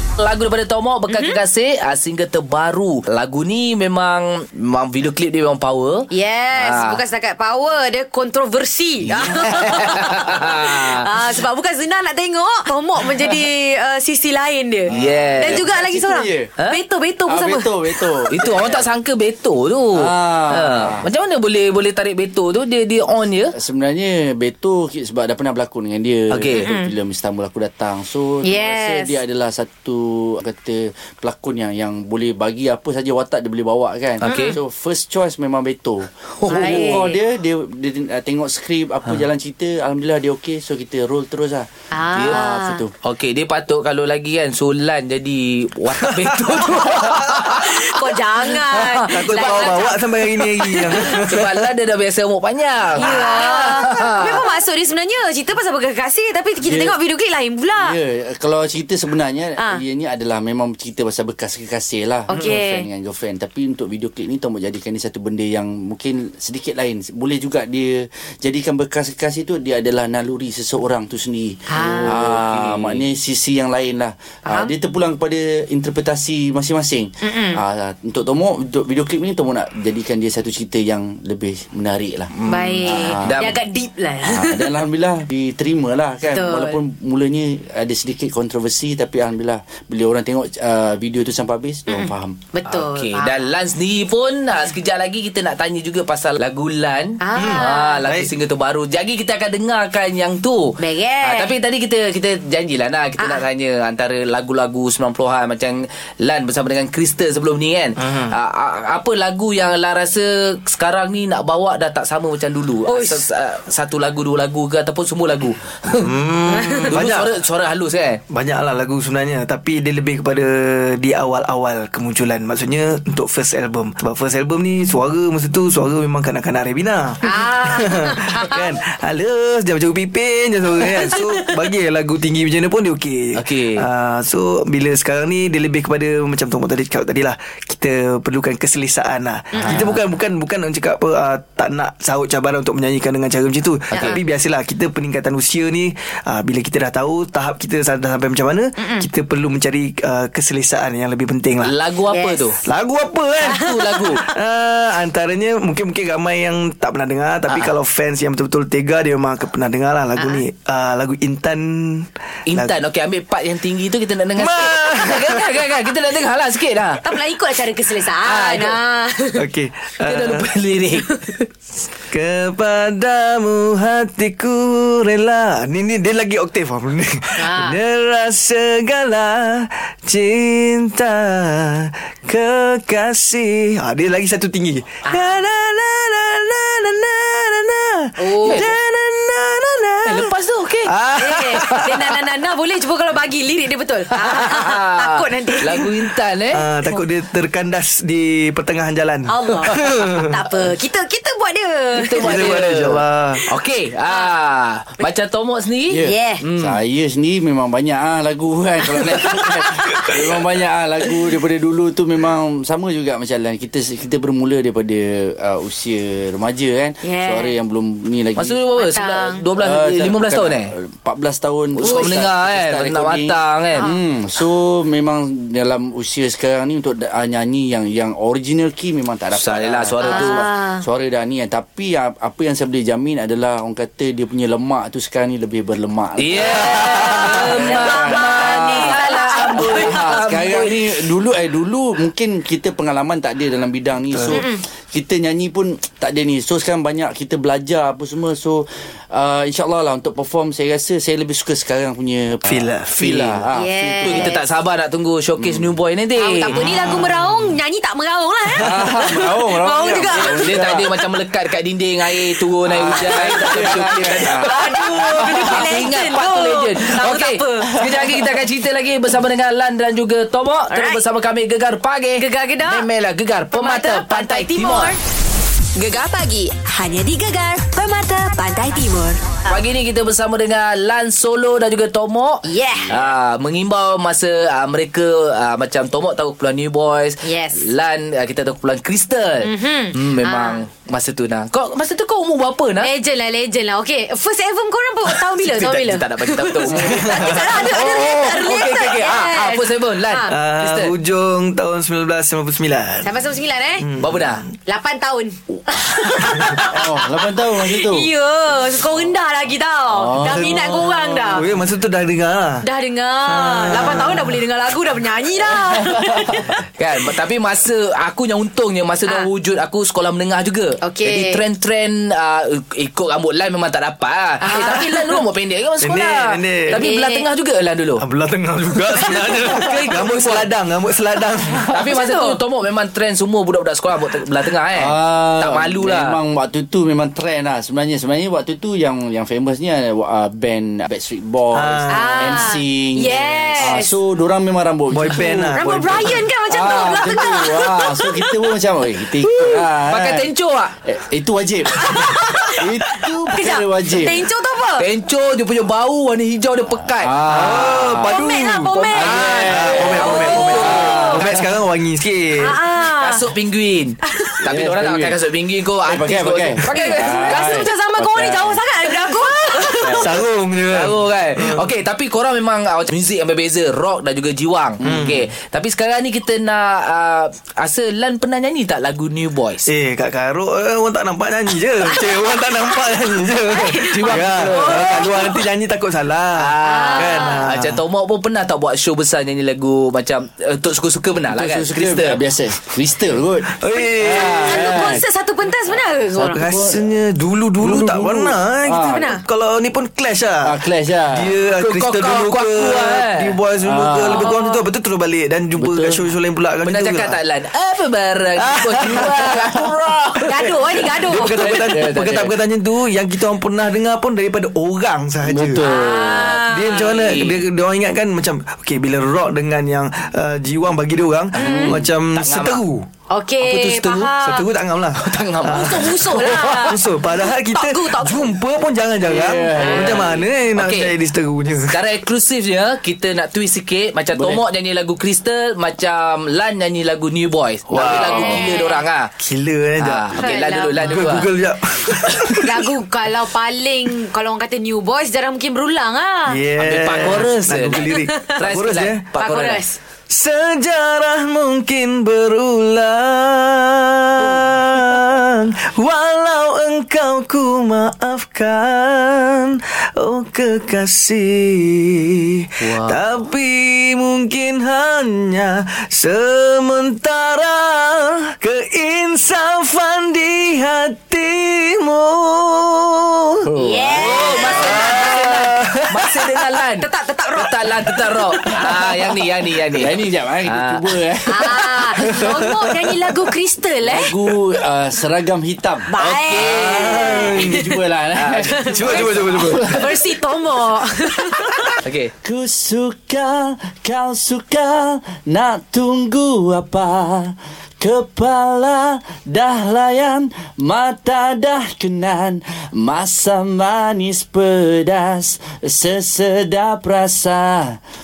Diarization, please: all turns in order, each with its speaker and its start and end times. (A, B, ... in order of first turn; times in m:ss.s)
0:00.2-0:07.0 A
0:01.1-0:01.4 B
0:06.1-0:18.7 B
0:09.0-0:11.1 A
0:14.9-0:15.6 A
0:14.9-0:16.5 C
0:17.3-0:18.8 C
0:18.3-0:23.5 A
0:19.9-0:21.0 C
0:23.5-0:42.9 C
0:26.3-0:26.6 A
0:26.5-0:26.9 B
0:28.4-0:29.2 B
0:34.2-0:34.6 A
0:34.2-0:34.5 B
0:36.4-0:37.0 A
0:36.5-0:37.2 B
0:41.9-0:42.8 B
0:42.1-0:42.4 A
0:43.0-0:47.7 A
0:46.0-0:47.5 D
0:47.5-0:50.1 B
0:48.6-0:51.7 D
0:49.2-0:49.7 A
0:51.0-0:54.4 A
0:52.9-0:58.0 B
0:56.6-0:57.0 C
0:57.7-1:23.6 C
1:02.3-1:02.8 B
1:11.7-1:12.1 B
1:11.8-1:13.0 A
1:14.5-1:14.7 B
1:17.2-1:17.6 B
1:22.3-1:23.6 A
1:22.4-1:24.7 B
1:24.2-1:32.4 C
1:26.3-1:26.8 B
1:31.9-1:33.5 B
1:32.6-1:56.1 A
1:37.2-1:38.0 B
1:37.3-1:38.3 D
1:40.8-1:41.5 B
1:43.2-1:43.4 B
1:48.0-1:48.3 D
1:52.8-1:53.2 B
1:56.0-1:57.3 D
1:56.5-1:56.9 B
1:56.9-1:58.2 A
1:58.3-2:31.7 D
2:07.2-2:08.8 B
2:10.8-2:11.5 B
2:13.3-2:13.8 A
2:19.5-2:20.0 A
2:19.6-2:19.9 B
2:23.9-2:24.2 A
2:28.8-2:29.1 B
2:31.6-2:32.6 A
2:32.1-2:32.5 B
2:32.6-2:42.7 D
2:33.4-2:34.3 A
2:33.4-2:34.3 B
2:37.5-2:37.7 A
2:42.4-2:47.0 A
2:44.4-2:45.5 D
2:47.0-2:49.4 B
2:48.2-2:48.8 A
2:49.3-2:50.5 D
2:50.0-2:51.1 A
2:52.1-3:10.3 D
2:57.4-2:57.8 B
3:05.1-3:05.4 B
3:08.2-3:08.7 B
3:08.4-3:08.7 A
3:10.0-3:10.9 A
3:10.8-3:12.1 D
3:11.2-3:16.1 B
3:14.1-3:16.6 A
3:16.5-3:20.4 D
3:19.3-3:22.6 B
3:21.9-3:26.8 A
3:22.2-3:23.4 D
3:24.1-3:24.3 B
3:25.9-3:38.6 C
3:26.0-3:26.4 B
3:29.5-3:30.1 B
3:37.0-3:37.5 B
3:38.4-3:40.7 A
3:38.8-3:39.4 B
3:39.6-4:14.4 C
3:41.8-3:43.9 A
3:41.8-3:42.2 B
3:49.3-3:50.4 A
3:50.0-3:50.8 B
3:56.2-4:01.0 A
3:56.7-4:00.2 B
4:04.1-4:04.4 D
4:04.3-4:04.6 B
4:12.4-4:13.0 D
4:13.0-4:13.4 A
4:13.5-4:14.4 B
4:14.0-4:16.6 A
4:15.4-4:15.7 C
4:16.2-4:21.0 B
4:16.6-4:17.1 D
4:18.6-4:20.8 C
4:20.1-4:35.0 A
4:22.7-4:24.5 C
4:22.9-4:28.1 B
4:24.6-4:25.4 D
4:30.7-4:31.0 B
4:32.2-4:32.9 B
4:33.5-4:35.0 B
4:35.7-4:39.2 E
4:39.5-4:52.9 A
4:42.4-4:43.0 B
4:47.2-4:47.7 B
4:49.4-4:50.6 B
4:52.8-5:00.3 B
4:55.1-5:00.9 A
4:56.8-4:57.8 D
5:00.3-5:03.2 D
5:03.0-5:03.9 B
5:03.8-5:04.5 D
5:04.0-5:04.4 A
5:04.6-5:11.5 B
5:06.6-5:08.1 C
5:09.9-5:11.4 C
5:10.2-5:12.6 D
5:12.6-5:16.5 B
5:13.2-5:14.4 D
5:15.9-5:16.2 C
5:16.8-5:28.0 A
5:20.8-5:21.4 B
5:24.4-5:25.2 B
5:25.8-5:26.8 D
5:26.7-5:27.3 B
5:28.0-5:31.8 D
5:28.9-5:29.7 B
5:29.5-5:30.5 A
5:31.7-5:36.2 A
5:31.8-5:32.4 B
5:34.7-5:45.6 C
5:41.5-5:42.4 D
5:41.9-5:43.9 B
5:44.9-5:46.2 D
5:45.5-5:48.4 B
5:46.5-5:50.3 C
5:49.3-5:50.8 A
5:50.8-5:54.3 C
5:51.8-5:54.9 B
5:54.8-5:57.8 A
5:57.0-5:58.2 C
5:57.3-6:02.6 D
5:58.0-6:01.2 B
5:58.9-6:01.4 C
5:58.9-6:01.0 A
6:02.4-6:03.2 B
6:02.8-6:07.7 A
6:04.1-6:04.4 B
6:04.4-6:05.2 C
6:05.8-6:08.6 C
6:06.7-6:10.2 B
6:09.8-6:10.2 C
6:09.8-6:11.7 D
6:10.7-6:19.7 A
6:14.8-6:15.2 C
6:14.8-6:15.2 D
6:19.6-6:27.8 D
6:21.8-6:25.5 B
6:23.9-6:25.1 A
6:26.4-6:32.2 A
6:26.6-6:27.4 B
6:31.3-6:35.0 C
6:33.5-6:34.9 D
6:34.4-6:36.6 B
6:36.1-6:36.8 C
6:36.3-6:40.5 D
6:37.6-6:39.1 C
6:38.8-6:39.2 B
6:40.4-6:41.3 C
6:41.1-6:47.2 D
6:41.6-6:43.4 A
6:43.6-6:44.3 C
6:44.1-6:44.6 B
6:45.6-6:46.0 C
6:46.6-6:50.3 A
6:48.4-6:55.7 D
6:50.2-6:51.5 B
6:51.4-6:52.2 A
6:51.7-6:52.3 C
6:55.2-6:56.4 C
6:55.6-6:57.1 B
6:56.3-7:02.9 D
6:56.7-6:57.4 A
7:01.3-7:01.9 C
7:01.4-7:01.8 B
7:02.1-7:02.6 A
7:03.1-7:04.5 B
7:03.4-7:04.0 A
7:03.5-7:11.8 D
7:05.0-7:05.9 A
7:05.4-7:08.4 B
7:09.0-7:10.1 C
7:09.6-7:10.2 B
7:09.7-7:10.9 A
7:11.6-7:19.1 A
7:14.1-7:14.4 C
7:17.7-7:18.6 D
7:17.9-7:18.8 B
7:19.2-7:22.7 D
7:19.8-7:21.3 A
7:20.2-7:21.1 B
7:22.2-7:26.4 B
7:26.3-7:29.0 D
7:26.6-7:27.8 A
7:27.8-7:28.4 B
7:28.4-7:29.6 A
7:29.2-7:29.8 B
7:30.1-7:53.5 D
7:42.6-7:43.0 A
7:53.4-7:54.4 C
7:53.5-7:55.5 B
7:53.9-8:00.8 A
7:54.0-7:56.6 D
7:56.8-7:58.6 B
7:59.7-8:02.2 C
8:01.2-8:04.1 B
8:01.9-8:03.2 D
8:03.8-8:05.9 C
8:05.9-8:07.8 B
8:06.0-8:07.4 A
8:06.3-8:07.8 D
8:07.4-8:09.9 C
8:08.1-8:08.7 A
8:08.5-8:11.8 B
8:08.6-8:09.9 D
8:11.8-8:12.1 A
8:12.2-8:27.8 C